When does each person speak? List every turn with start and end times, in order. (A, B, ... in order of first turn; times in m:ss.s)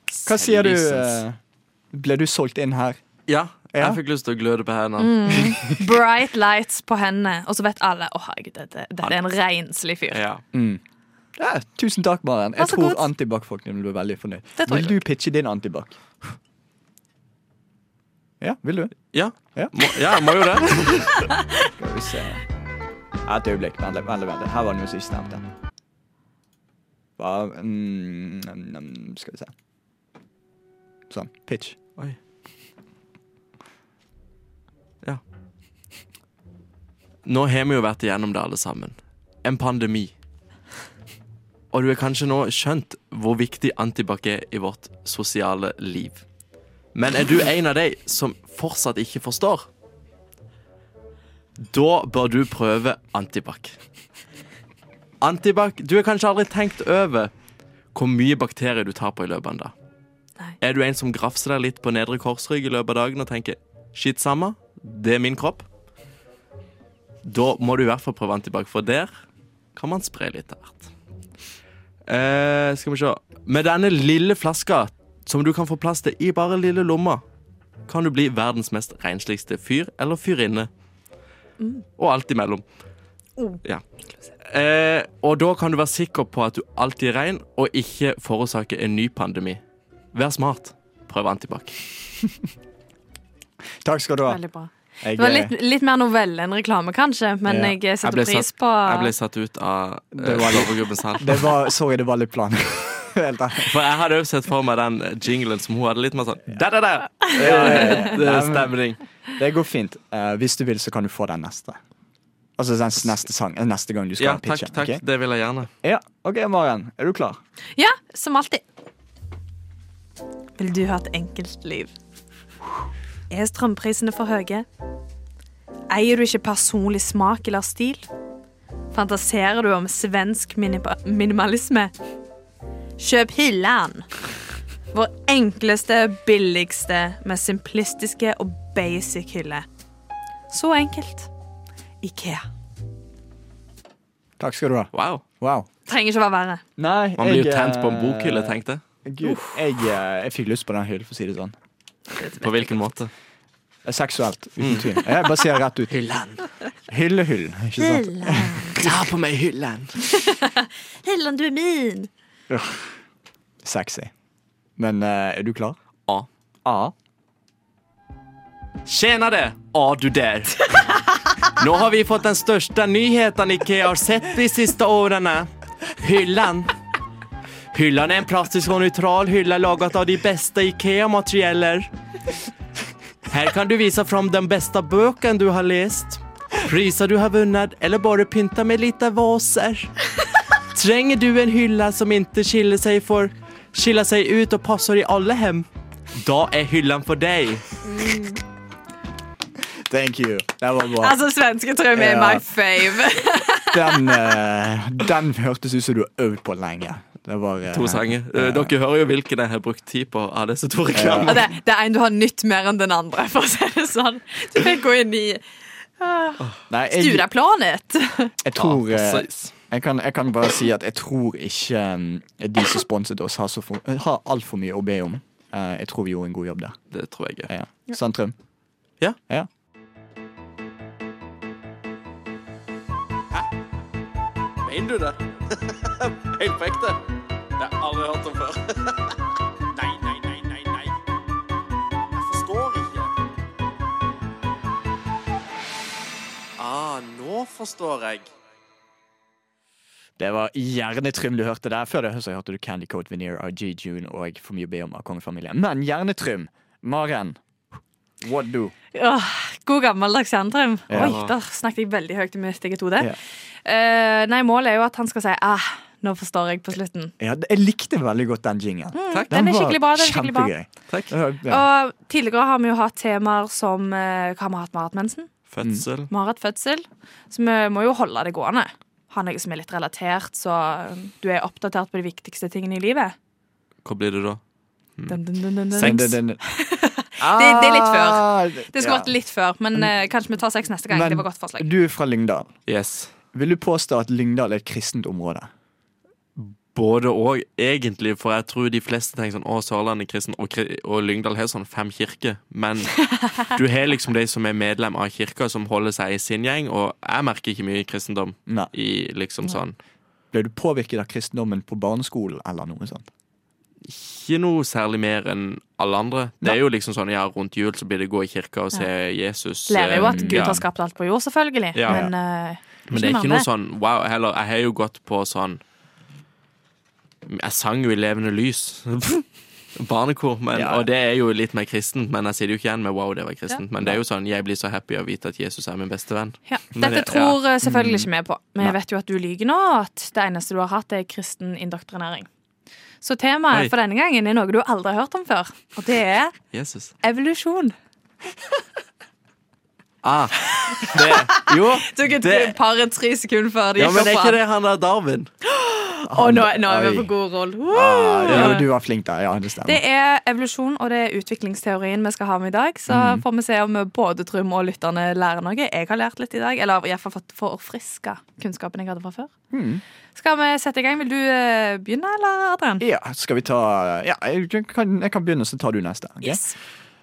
0:00.2-0:01.2 A
0:00.2-0:01.4 B
0:01.9-0:03.0 B
0:03.3-0:05.6 A
0:03.7-0:04.0 B
0:05.0-0:10.2 C
0:10.1-0:10.4 A
0:10.5-0:10.8 B
0:11.4-0:16.0 B
0:12.6-0:13.1 C
0:14.6-0:15.0 C
0:18.4-0:19.0 B
0:19.1-0:21.1 A
0:19.5-0:19.9 B
0:21.6-0:22.4 B
0:23.2-0:25.4 B
0:27.2-0:29.5 B
0:31.1-0:31.8 B
0:37.2-0:40.1 A
0:41.7-0:46.2 A
0:46.9-0:49.7 A
0:51.6-0:53.7 A
0:55.2-0:57.3 A
0:57.9-0:59.7 A
1:00.6-1:05.6 A
1:07.2-1:09.1 A
1:09.7-1:10.9 A
1:12.1-1:17.2 A
1:17.9-1:20.7 A
1:21.6-1:21.8 C
1:22.0-1:22.6 A
1:24.4-1:29.6 A
1:30.1-1:31.8 A
1:33.8-1:34.4 B
1:34.3-1:39.1 C
1:35.0-1:35.5 B
1:37.4-1:37.7 B
1:38.0-1:41.5 A
1:40.2-1:43.8 B
1:43.6-1:49.0 A
1:47.2-1:48.0 C
1:47.3-1:48.7 B
1:49.4-1:51.8 B
1:52.6-1:55.0 B
1:54.2-1:55.7 A
1:55.8-1:57.4 B
1:57.8-1:58.6 C
2:00.6-2:01.9 C
2:03.3-2:04.6 C
2:05.9-2:08.1 C
2:08.9-2:11.9 C
2:13.0-2:14.1 C
2:14.9-2:19.6 C
2:20.5-2:21.3 C
2:22.0-2:22.4 C
2:24.4-2:25.7 B
2:24.9-2:25.2 A
2:25.9-2:26.6 C
2:26.8-2:31.5 B
2:27.2-2:28.8 A
2:29.2-2:29.5 C
2:32.2-2:32.6 C
2:32.4-2:33.1 A
2:33.8-2:35.9 B
2:34.6-2:35.1 A
2:35.9-2:36.4 A
2:36.9-2:38.7 B
2:37.8-2:38.8 C
2:38.7-2:40.0 A
2:40.0-2:42.1 C
2:42.5-2:43.0 B
2:43.6-2:44.1 B
2:44.8-2:45.8 B
2:46.6-2:46.9 B
2:48.8-2:50.8 A
2:51.4-2:56.7 A
2:57.7-3:01.9 A
3:03.3-3:09.9 A
3:10.7-3:17.7 A
3:17.8-3:18.4 C
3:19.9-3:21.2 B
3:21.0-3:24.3 C
3:21.9-3:22.5 B
3:23.7-3:28.7 B
3:27.7-3:31.4 A
3:30.9-3:31.5 B
3:31.3-3:35.4 C
3:36.0-3:38.3 C
3:36.7-3:37.2 B
3:38.4-3:46.8 B
3:38.6-3:39.5 A
3:46.9-3:47.5 A
3:47.5-3:48.3 B
3:54.6-3:57.0 A
3:57.6-3:59.2 A
3:59.7-4:01.0 A
4:02.1-4:03.1 A
4:06.6-4:08.3 A
4:10.2-4:17.4 B
4:18.2-4:18.7 B
4:18.9-4:23.1 C
4:20.9-4:21.2 B
4:21.0-4:21.3 A
4:23.6-4:27.1 C
4:27.2-4:31.6 B
4:28.9-4:30.5 C
4:31.5-4:35.3 C
4:35.5-4:36.1 A
4:36.1-4:43.1 C
4:43.8-4:44.4 A
4:45.1-4:51.7 C
4:45.7-4:46.1 A
4:45.8-4:46.4 B
4:47.2-4:49.1 B
4:50.9-4:52.5 B
4:52.7-4:53.1 A
4:53.3-4:55.5 B
4:56.4-5:09.8 A
5:10.3-5:13.1 B
5:13.8-5:20.6 A
5:19.7-5:23.5 C
5:19.9-5:20.6 B
5:21.7-5:22.1 A
5:22.9-5:25.6 A
5:27.2-5:29.2 A
5:29.8-5:37.4 A
5:30.5-5:30.8 B
5:36.5-5:42.3 C
5:37.6-5:38.1 B
5:43.0-5:46.3 C
5:46.5-5:46.9 A
5:47.0-5:47.7 C
5:50.0-5:52.6 A
5:50.5-5:54.4 C
5:53.8-5:55.3 A
5:55.4-5:58.6 C
5:56.1-5:57.1 B
5:57.7-5:59.8 B
5:58.3-5:58.6 A
5:59.6-6:09.3 C
6:02.9-6:03.2 B
6:09.5-6:09.8 B
6:10.2-6:12.8 C
6:12.8-6:16.4 B
6:16.2-6:16.5 C